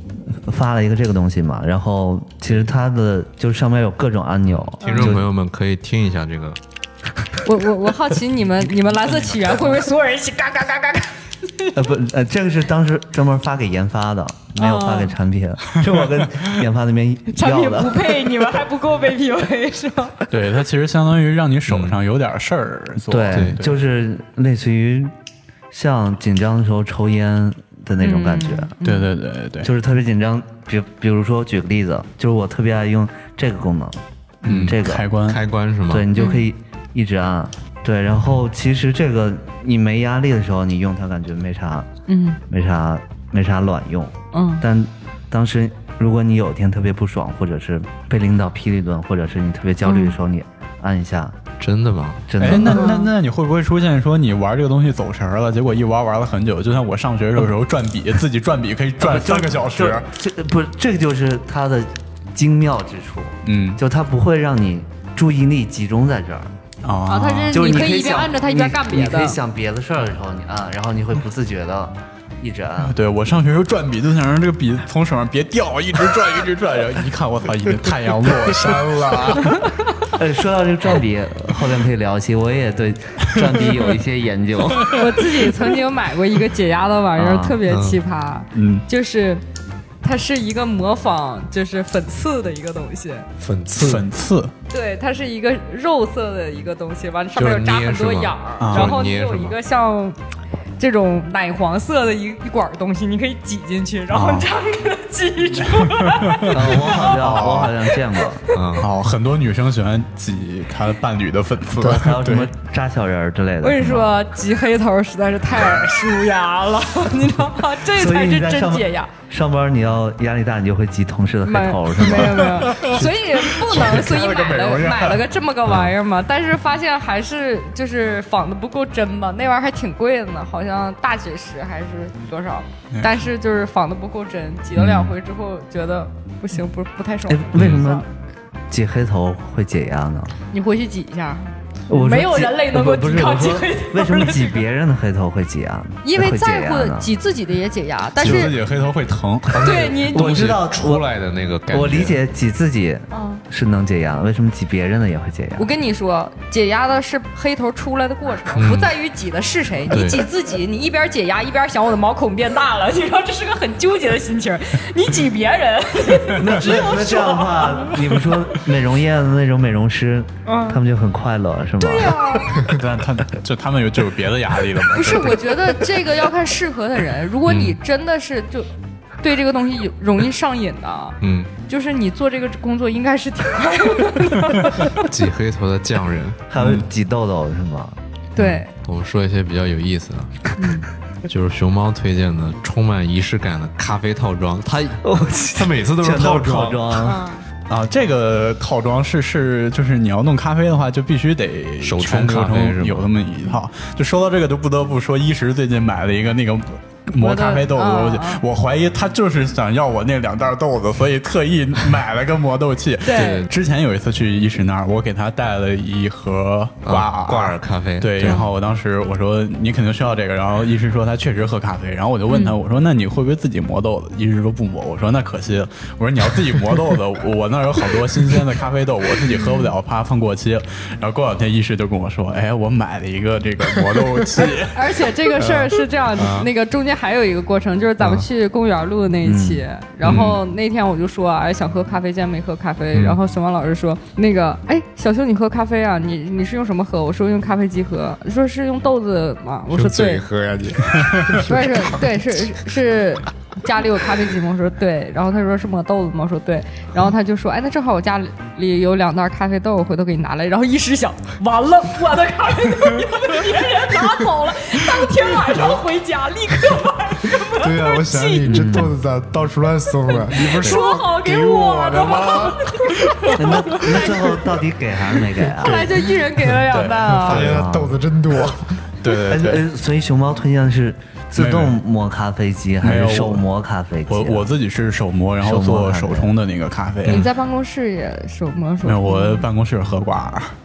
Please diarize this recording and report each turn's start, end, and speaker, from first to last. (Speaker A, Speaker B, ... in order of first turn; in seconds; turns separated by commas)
Speaker A: 0.2-5.3, Speaker B: 4.7-6.6, Speaker C: 4.8-5.1, Speaker C: 7.4-11.8, Speaker A: 11.7-18.3, Speaker C: 14.6-15.2, Speaker C: 17.3-20.2, Speaker D: 20.3-23.7, Speaker B: 21.7-22.0, Speaker A: 23.0-25.1, Speaker B: 23.3-23.6, Speaker A: 25.7-28.8, Speaker C: 28.0-29.1, Speaker D: 28.8-29.7, Speaker A: 29.6-34.0, Speaker D: 34.4-35.4, Speaker B: 34.4-36.1, Speaker A: 34.5-35.1, Speaker A: 35.9-41.9, Speaker C: 36.1-36.5, Speaker C: 42.1-42.4, Speaker A: 42.5-51.4, Speaker C: 44.3-44.6, Speaker C: 49.8-50.1, Speaker B: 51.6-52.2, Speaker A: 52.3-53.0, Speaker D: 52.4-60.1, Speaker C: 52.5-53.1, Speaker A: 59.0-66.5, Speaker D: 63.4-63.8, Speaker D: 66.8-67.7, Speaker C: 67.1-69.4, Speaker A: 67.5-73.0, Speaker D: 72.8-79.4, Speaker E: 78.6-79.5, Speaker C: 79.4-79.9, Speaker A: 80.1-85.1, Speaker C: 84.9-89.4, Speaker A: 87.2-87.6, Speaker B: 87.7-88.0, Speaker D: 88.5-88.8, Speaker C: 90.0-93.3, Speaker B: 93.4-94.1, Speaker D: 93.8-94.5, Speaker C: 94.7-100.2, Speaker B: 97.3-99.5, Speaker D: 98.6-98.9, Speaker C: 100.8-107.1, Speaker D: 104.1-104.5, Speaker D: 105.8-107.8, Speaker A: 106.5-108.4, Speaker B: 108.5-108.9, Speaker D: 108.8-112.5, Speaker A: 111.8-114.2, Speaker C: 113.6-119.1, Speaker A: 117.9-122.8, Speaker C: 121.4-138.1, Speaker D: 122.2-125.2, Speaker D: 132.9-133.2, Speaker A: 137.3-138.1, Speaker A: 138.7-140.3, Speaker C: 140.5-144.6, Speaker A: 141.9-147.1, Speaker C: 146.0-148.5, Speaker D: 148.2-149.7, Speaker B: 149.5-152.2, Speaker C: 149.6-150.5, Speaker A: 150.1-151.1, Speaker A: 151.7-155.7, Speaker C: 153.1-153.4, Speaker C: 155.6-168.3, Speaker B: 158.5-158.9, Speaker B: 159.9-160.2, Speaker A: 166.3-172.4, Speaker C: 170.4-170.8, Speaker C: 171.8-172.7, Speaker D: 172.7-175.6, Speaker C: 174.9-178.7, Speaker B: 177.5-177.8, Speaker C: 179.2-181.2, Speaker B: 181.2-181.5, Speaker C: 181.7-185.0, Speaker B: 185.0-186.8, Speaker A: 186.5-188.0, Speaker C: 188.3-188.7, Speaker B: 188.4-190.5, Speaker C: 190.6-190.8, Speaker B: 191.2-195.0, Speaker A: 195.0-197.2, Speaker B: 195.5-197.0, Speaker C: 197.0-197.4, Speaker D: 197.7-235.0, Speaker B: 201.8-203.1, Speaker C: 207.2-208.4, Speaker C: 213.0-213.4, Speaker B: 213.1-213.5, Speaker B: 216.8-218.5, Speaker C: 218.2-218.5, Speaker C: 222.3-222.6, Speaker C: 229.3-229.7, Speaker C: 234.4-250.2, Speaker B: 236.2-236.5, Speaker A: 239.2-239.6, Speaker B: 240.0-240.4, Speaker E: 249.7-252.1, Speaker C: 251.4-268.8, Speaker E: 267.5-272.8, Speaker D: 268.5-268.8, Speaker C: 270.1-274.5, Speaker D: 270.5-270.8, Speaker A: 273.3-275.9, Speaker C: 275.3-277.5, Speaker D: 275.6-277.6, Speaker E: 277.2-278.8, Speaker A: 277.3-277.9, Speaker D: 279.0-279.6, Speaker A: 279.2-284.5, Speaker D: 281.4-281.8, Speaker D: 282.8-283.4, Speaker D: 284.1-287.3, Speaker A: 285.4-286.3, Speaker C: 287.1-289.5, Speaker D: 288.8-290.5